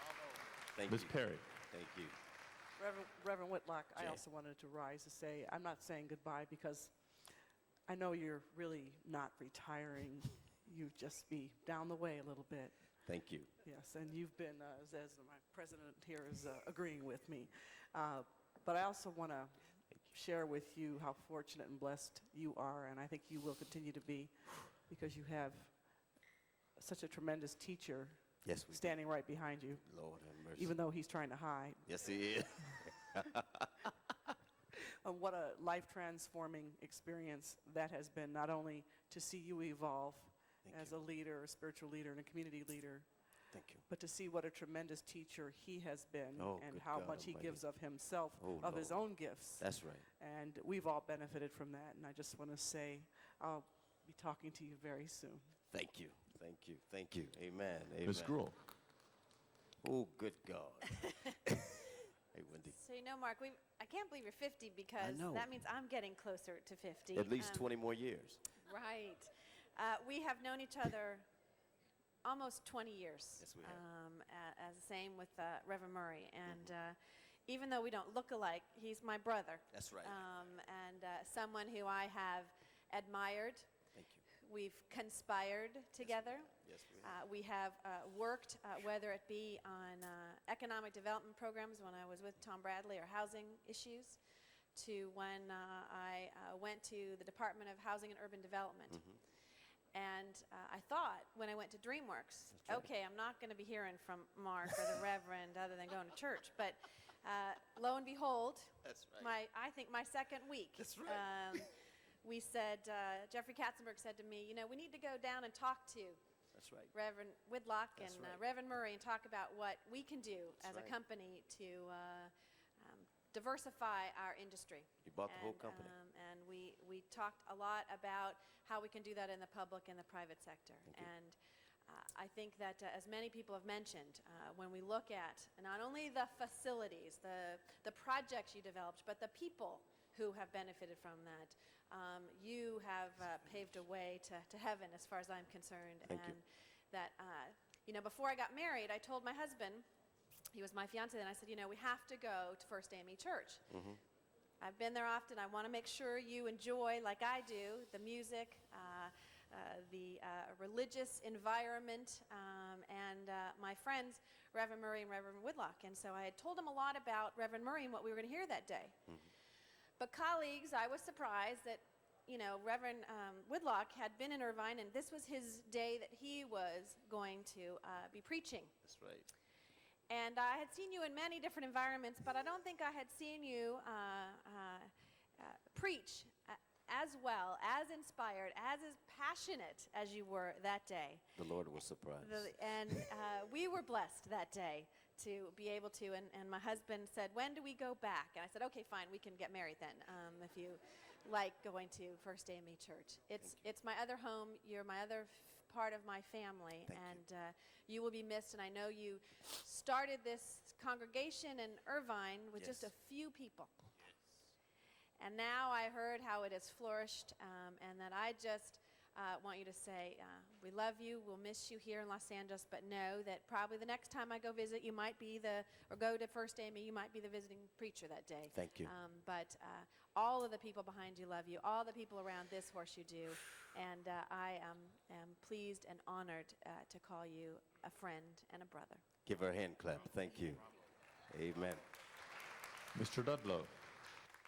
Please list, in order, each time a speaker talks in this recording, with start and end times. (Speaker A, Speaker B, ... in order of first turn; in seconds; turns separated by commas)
Speaker A: 0.7-2.1, Speaker B: 0.9-1.5, Speaker C: 2.8-12.8, Speaker A: 4.0-4.2, Speaker A: 13.0-13.5, Speaker C: 13.6-25.8, Speaker C: 26.8-29.9, Speaker A: 28.4-29.0, Speaker A: 29.8-30.8, Speaker C: 30.5-31.8, Speaker A: 31.8-33.9, Speaker C: 35.0-43.1, Speaker A: 40.6-41.0, Speaker A: 43.5-43.9, Speaker C: 43.9-55.5, Speaker A: 46.4-47.6, Speaker A: 48.4-49.0, Speaker A: 49.6-50.1, Speaker A: 55.7-58.4, Speaker B: 58.0-58.6, Speaker A: 59.8-61.5, Speaker A: 62.3-62.8, Speaker D: 62.7-67.7, Speaker A: 65.0-65.5, Speaker A: 67.1-68.4, Speaker D: 68.6-71.2, Speaker D: 72.2-83.7, Speaker A: 73.4-73.8, Speaker A: 79.7-80.2, Speaker A: 83.9-84.2, Speaker D: 84.3-94.2, Speaker A: 86.0-87.1, Speaker D: 94.7-99.1, Speaker D: 99.9-111.7, Speaker A: 102.5-102.9, Speaker A: 108.8-109.3, Speaker A: 110.8-111.7, Speaker D: 112.2-116.2, Speaker A: 116.5-116.9, Speaker D: 116.9-131.3, Speaker A: 118.0-118.4, Speaker A: 120.6-121.0, Speaker A: 125.0-125.9, Speaker D: 131.9-149.8, Speaker A: 146.1-146.4, Speaker D: 150.5-153.7, Speaker A: 153.7-154.0, Speaker D: 154.6-169.0, Speaker D: 170.0-178.7, Speaker A: 178.8-179.3, Speaker D: 180.1-191.2, Speaker A: 191.3-193.1, Speaker D: 192.2-213.7, Speaker A: 206.9-207.2, Speaker A: 212.6-212.9, Speaker D: 215.2-239.0, Speaker A: 228.5-228.9, Speaker A: 239.2-240.6, Speaker A: 241.3-241.8, Speaker B: 242.9-243.7